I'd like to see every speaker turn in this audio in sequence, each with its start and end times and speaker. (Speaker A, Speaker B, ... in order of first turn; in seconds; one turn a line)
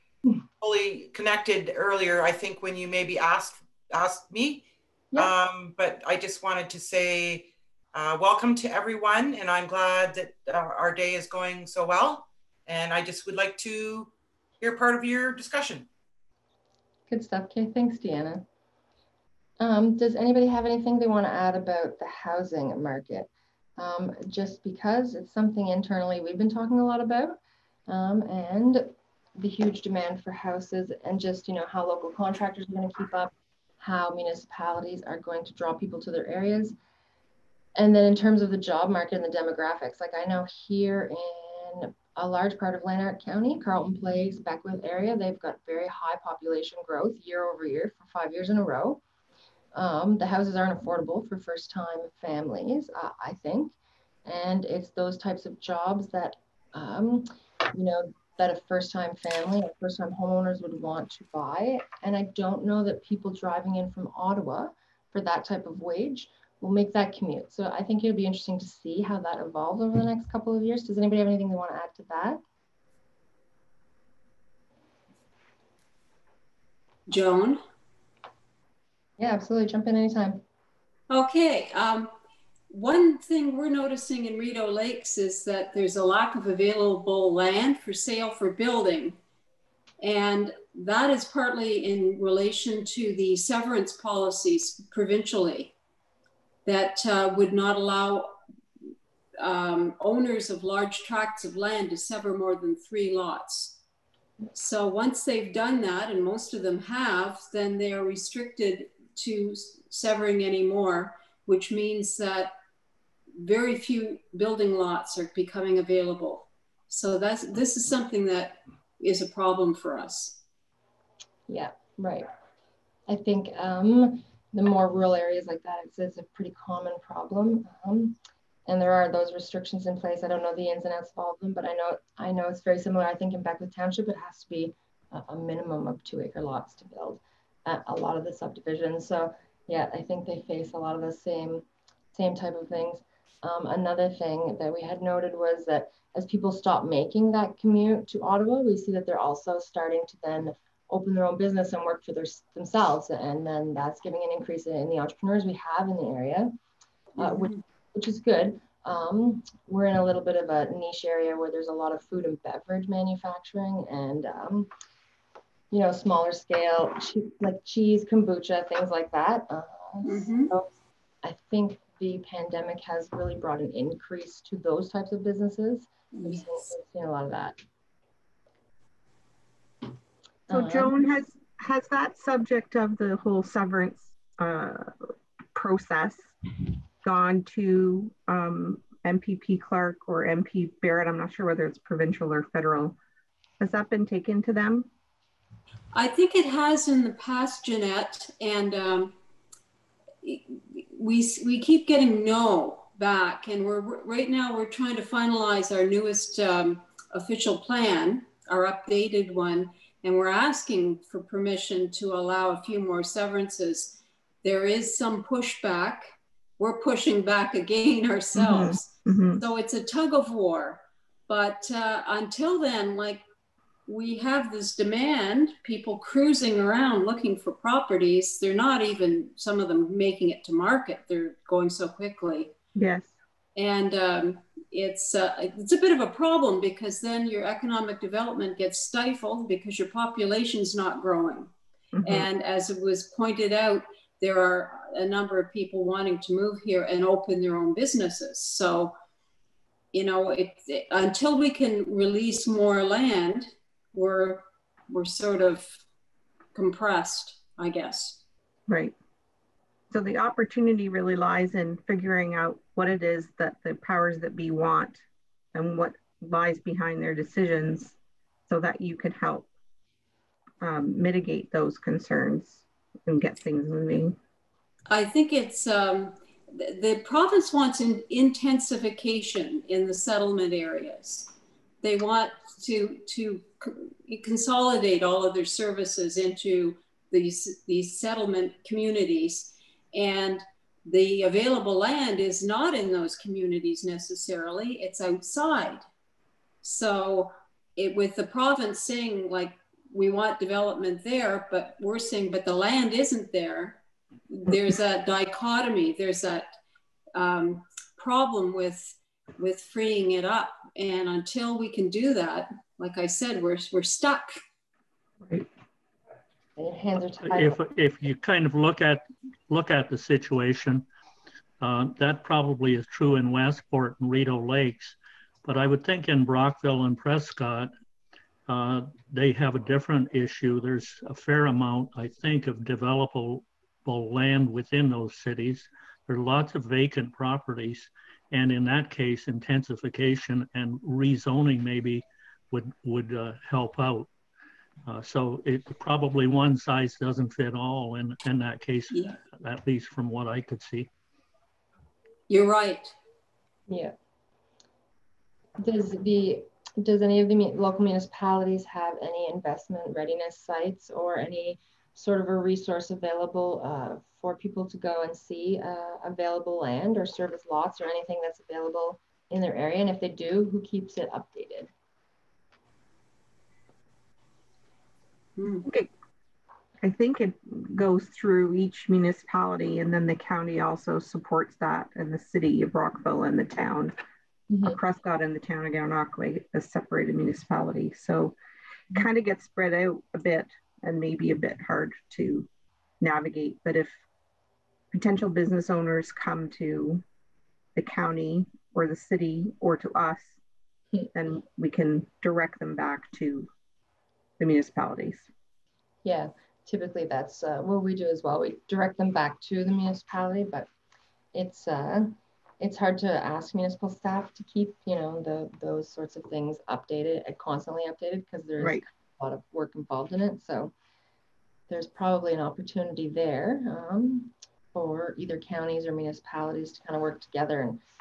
Speaker A: 0.6-15.9
Speaker B: 17.1-18.4
Speaker B: 19.6-36.8
Speaker B: 37.8-49.0
Speaker B: 49.7-53.7
Speaker B: 54.2-72.4
Speaker C: 77.1-77.6
Speaker B: 79.2-80.4
Speaker C: 81.1-82.1
Speaker C: 82.7-89.2
Speaker C: 90.0-95.7
Speaker C: 96.7-98.4
Speaker C: 99.4-103.8
Speaker C: 104.5-112.5
Speaker C: 113.4-120.4
Speaker B: 121.5-122.3
Speaker B: 123.1-156.5
Speaker B: 157.2-164.7
Speaker C: 157.2-157.6
Speaker B: 165.7-170.7
Speaker C: 170.1-170.5
Speaker B: 171.2-177.6
Speaker C: 176.1-176.4
Speaker B: 180.5-180.9
Speaker D: 180.5-184.9
Speaker D: 185.5-186.3
Speaker D: 187.0-193.0
Speaker D: 193.6-194.9
Speaker C: 195.9-199.2
Speaker C: 200.2-216.1
Speaker C: 216.6-223.2
Speaker D: 218.4-219.4
Speaker C: 223.9-232.5
Speaker D: 232.8-233.2
Speaker C: 233.6-241.5
Speaker D: 241.9-242.3
Speaker C: 242.0-248.9
Speaker C: 249.9-255.8
Speaker C: 256.6-258.2
Speaker D: 258.7-258.9
Speaker D: 259.9-265.0
Speaker D: 265.5-268.0
Speaker D: 268.5-269.5
Speaker D: 270.6-274.2
Speaker C: 274.9-281.3
Speaker C: 281.8-295.8
Speaker C: 296.6-306.5
Speaker C: 307.1-314.3
Speaker B: 316.6-317.6
Speaker E: 317.3-320.9
Speaker E: 321.6-327.7
Speaker E: 328.5-344.1
Speaker E: 344.9-350.9
Speaker C: 352.3-352.9
Speaker B: 353.7-353.9
Speaker B: 355.6-371.7
Speaker C: 375.4-375.6
Speaker D: 376.8-383.9
Speaker B: 384.5-384.8
Speaker D: 384.7-388.4
Speaker D: 388.9-392.5
Speaker D: 393.0-394.0
Speaker D: 394.9-397.0
Speaker D: 397.8-400.4
Speaker D: 401.1-403.5
Speaker D: 404.4-405.3
Speaker B: 406.1-410.7
Speaker B: 411.3-420.7
Speaker B: 421.7-427.8